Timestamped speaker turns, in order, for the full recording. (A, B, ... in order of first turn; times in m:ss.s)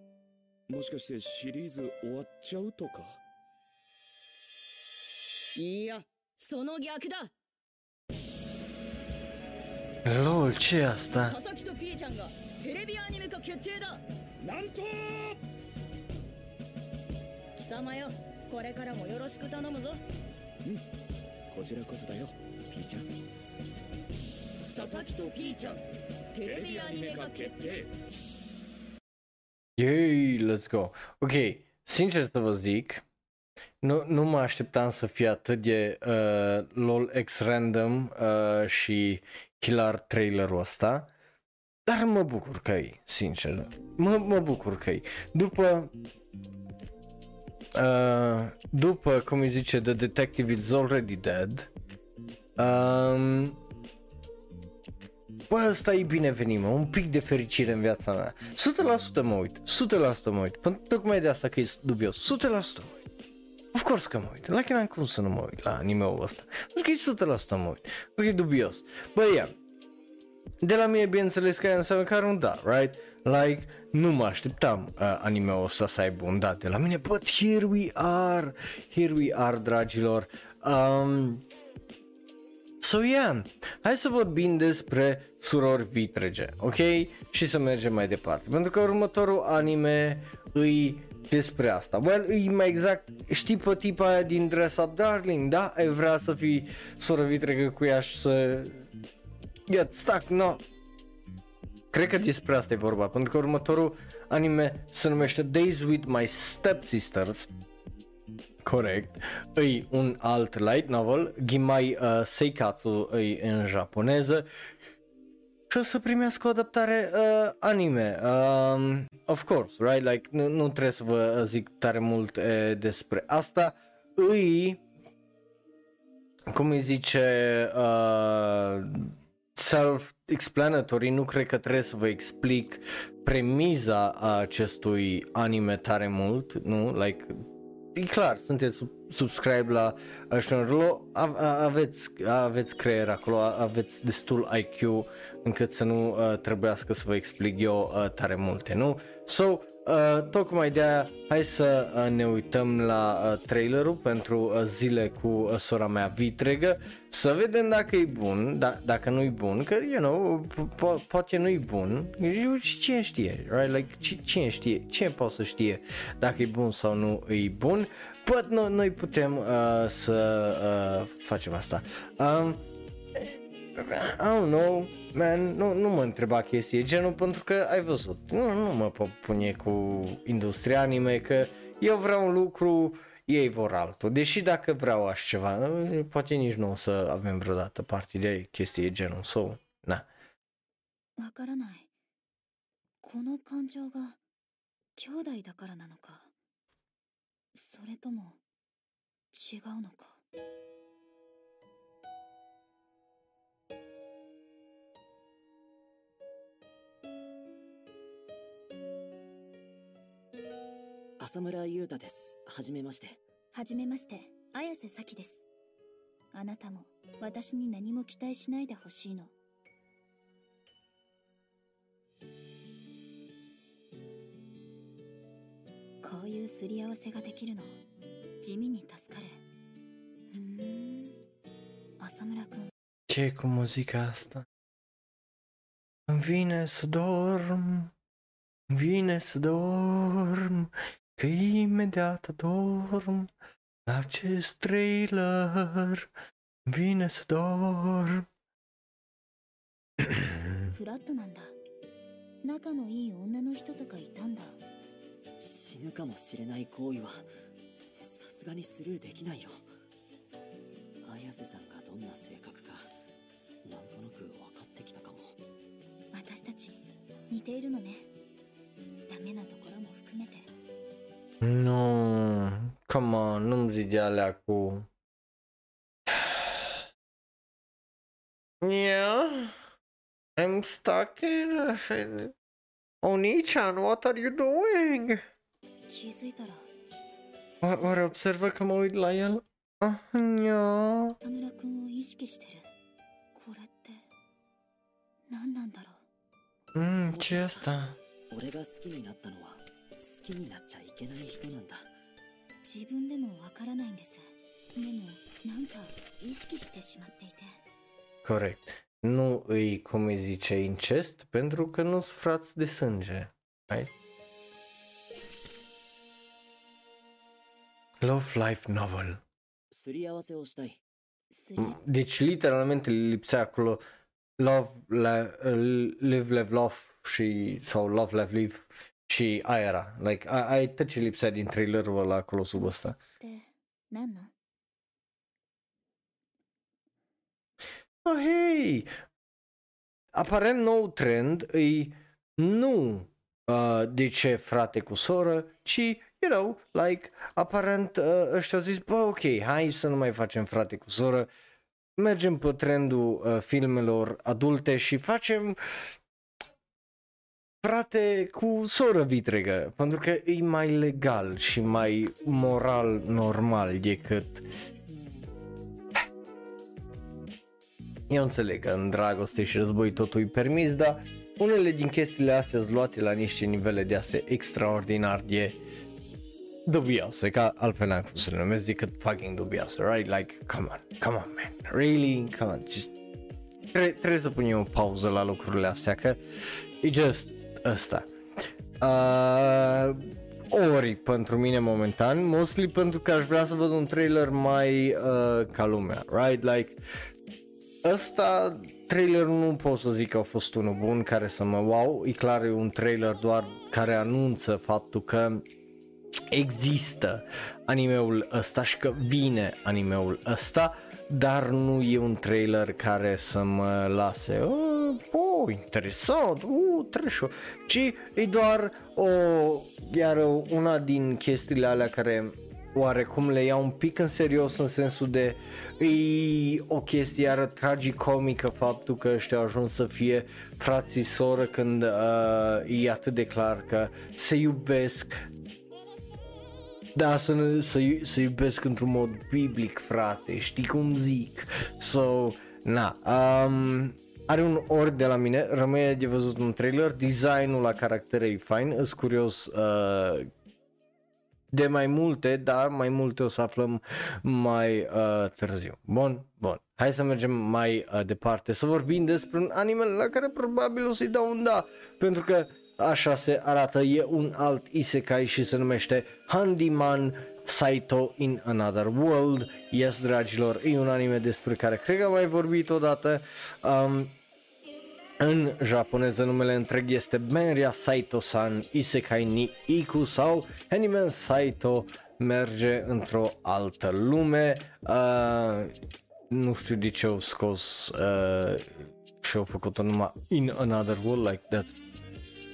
0:00.7-0:03.2 A
0:05.5-0:07.3 B
0:10.0-0:11.3 C
0:11.1-0:14.0 B
0:14.4-0:15.4 A
0:17.6-0:20.0 B
0:21.5-0:23.1 A
0:24.6-0:25.8 B
0:24.7-0:25.8 A
0:26.3-0:27.8 B
0:26.4-0:27.9 A
0:29.8-0:33.0 C
0:33.8-0:41.1 C
0:41.9-0:45.9 C
0:47.7-0:51.7 C
0:52.6-0:53.6 C
0:55.5-1:02.9 C
1:03.7-1:09.5 C
1:10.6-1:21.4 C
1:22.8-1:38.8 C
1:39.7-1:40.6 C
1:41.9-1:47.5 C
1:48.6-1:54.4 C
1:55.7-2:04.8 C
2:06.5-2:17.3 C
2:18.0-2:52.6 C
2:53.2-3:10.1 C
3:11.2-3:11.9 D
3:13.0-3:14.2 D
3:15.0-3:16.3 D
3:17.5-3:18.4 D
3:19.3-3:20.2 D
3:31.2-3:33.2 E
3:33.5-3:35.4 D
3:36.3-3:39.3 D
3:46.0-3:47.7 D
3:48.4-3:49.4 D
3:50.3-3:51.2 D
3:52.0-3:52.7 D
3:53.1-3:54.4 C
3:56.1-3:57.9 C
3:58.7-4:03.3 C
4:03.9-4:06.0 C
4:06.7-4:08.3 C
4:10.0-4:10.3 C
4:10.7-4:11.5 D
4:12.4-4:14.6 D
4:15.4-4:17.3 E
4:18.0-4:19.6 E
4:21.0-4:22.9 E
4:23.6-4:25.4 E
4:26.1-4:28.0 D
4:29.1-4:30.5 D
4:31.4-4:34.9 C
4:36.1-4:36.5 C
4:38.6-4:39.5 C
4:40.4-4:42.3 C
4:43.0-4:45.2 C
4:45.9-4:46.7 D
4:47.6-4:51.2 C
4:47.8-4:48.0 D
4:51.2-4:52.7 D
4:53.3-4:54.0 D
4:55.3-4:56.0 D
4:56.7-4:58.0 C
4:56.8-4:57.8 E
4:58.3-5:01.9 E
5:02.6-5:07.6 D
5:08.2-5:13.9 C
5:18.0-5:19.2 C
5:19.7-5:20.8 E
5:21.3-5:21.7 D
5:21.6-5:23.8 C
5:24.4-5:33.0 C
5:33.2-5:34.3 D
5:38.0-5:38.9 C
5:40.1-5:51.3 C
5:52.0-5:55.6 C
5:57.6-6:04.4 C
6:08.1-6:15.6 C
6:16.7-6:23.0 C
6:23.7-6:26.2 C
6:26.8-6:28.1 C
6:28.8-6:36.8 C
6:37.8-6:45.4 C
6:46.3-7:15.2 C
7:17.0-7:30.3 C
7:31.5-7:54.1 C
7:55.2-8:05.7 C
8:06.3-8:08.7 C
8:09.2-8:11.7 C